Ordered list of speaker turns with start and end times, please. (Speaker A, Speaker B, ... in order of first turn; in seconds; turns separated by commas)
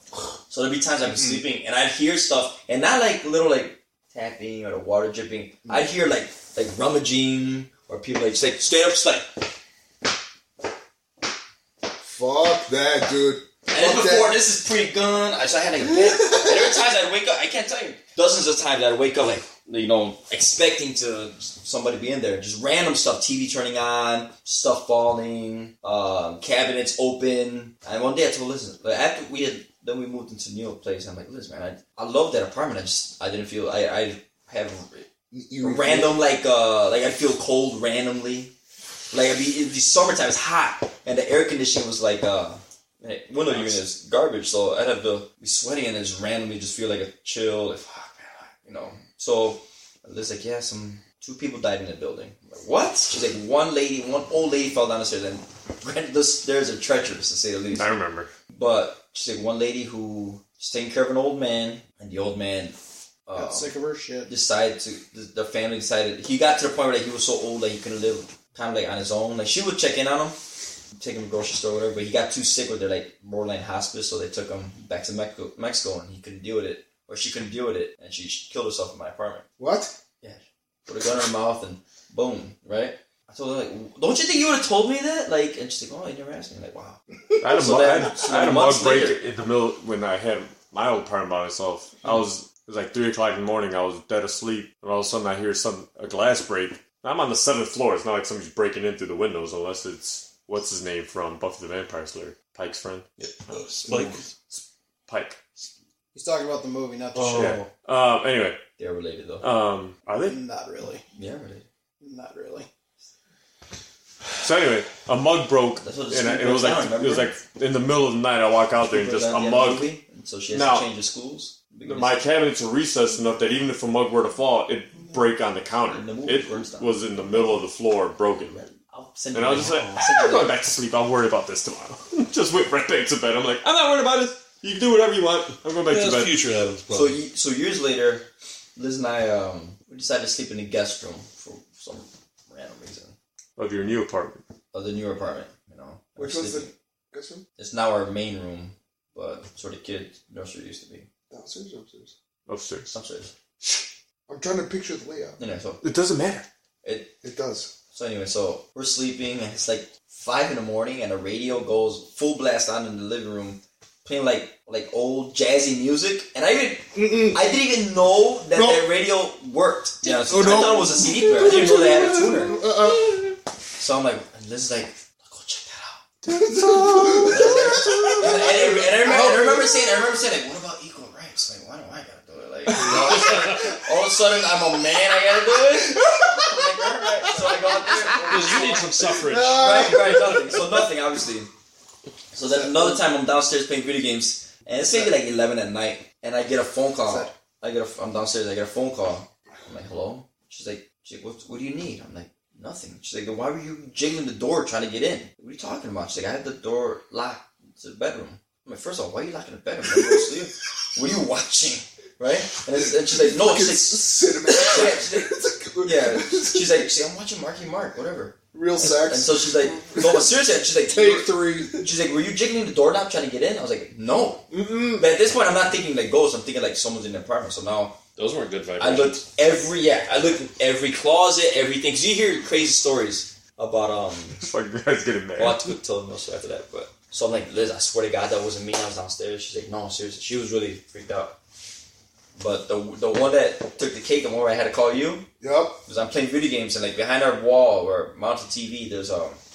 Speaker A: 0.5-9.4, Speaker B: 1.1-1.4, Speaker B: 12.0-14.4, Speaker A: 13.7-35.0, Speaker B: 15.8-16.8, Speaker B: 35.3-36.2, Speaker A: 35.6-38.5, Speaker A: 39.1-57.9, Speaker C: 57.7-58.3, Speaker A: 58.5-63.7, Speaker D: 63.3-64.3, Speaker A: 64.2-70.4, Speaker A: 71.0-79.5, Speaker B: 79.6-79.9, Speaker A: 80.2-87.0, Speaker C: 87.4-105.4, Speaker A: 87.5-89.2, Speaker E: 103.8-104.2, Speaker D: 106.1-107.6, Speaker E: 107.1-107.7, Speaker C: 107.3-108.6, Speaker A: 108.8-109.4, Speaker C: 109.4-110.4, Speaker D: 110.2-111.0, Speaker A: 111.1-111.7, Speaker D: 112.0-112.7, Speaker C: 114.4-119.9, Speaker A: 115.8-117.3, Speaker A: 118.9-122.2, Speaker C: 120.5-120.9, Speaker C: 121.8-128.7, Speaker A: 125.9-126.9, Speaker A: 128.9-130.5, Speaker C: 129.3-136.3, Speaker E: 135.9-137.2, Speaker A: 136.9-143.2, Speaker C: 143.6-144.4, Speaker A: 144.7-146.7, Speaker B: 146.2-147.4, Speaker A: 147.6-151.1, Speaker B: 151.3-152.1, Speaker C: 152.5-152.9, Speaker A: 152.9-153.3, Speaker B: 154.3-155.4, Speaker A: 155.4-155.8, Speaker C: 155.8-156.5, Speaker A: 156.8-157.2, Speaker B: 157.2-157.7, Speaker A: 157.9-172.6, Speaker B: 166.9-167.4, Speaker B: 168.5-168.9, Speaker B: 170.1-173.3, Speaker A: 173.8-176.0, Speaker B: 176.2-178.9, Speaker C: 176.4-177.2, Speaker A: 177.1-191.5, Speaker D: 178.9-179.9, Speaker D: 188.0-188.7, Speaker F: 188.3-189.8, Speaker B: 189.2-190.3, Speaker A: 192.3-228.0, Speaker D: 192.5-193.0, Speaker D: 197.1-197.3, Speaker B: 210.0-210.2, Speaker B: 212.7-216.9, Speaker B: 218.5-221.9, Speaker B: 224.5-225.1, Speaker F: 228.2-229.2, Speaker A: 228.8-234.5, Speaker C: 234.4-235.7, Speaker A: 235.4-241.4, Speaker A: 242.4-245.3, Speaker B: 245.4-245.8, Speaker A: 245.8-249.4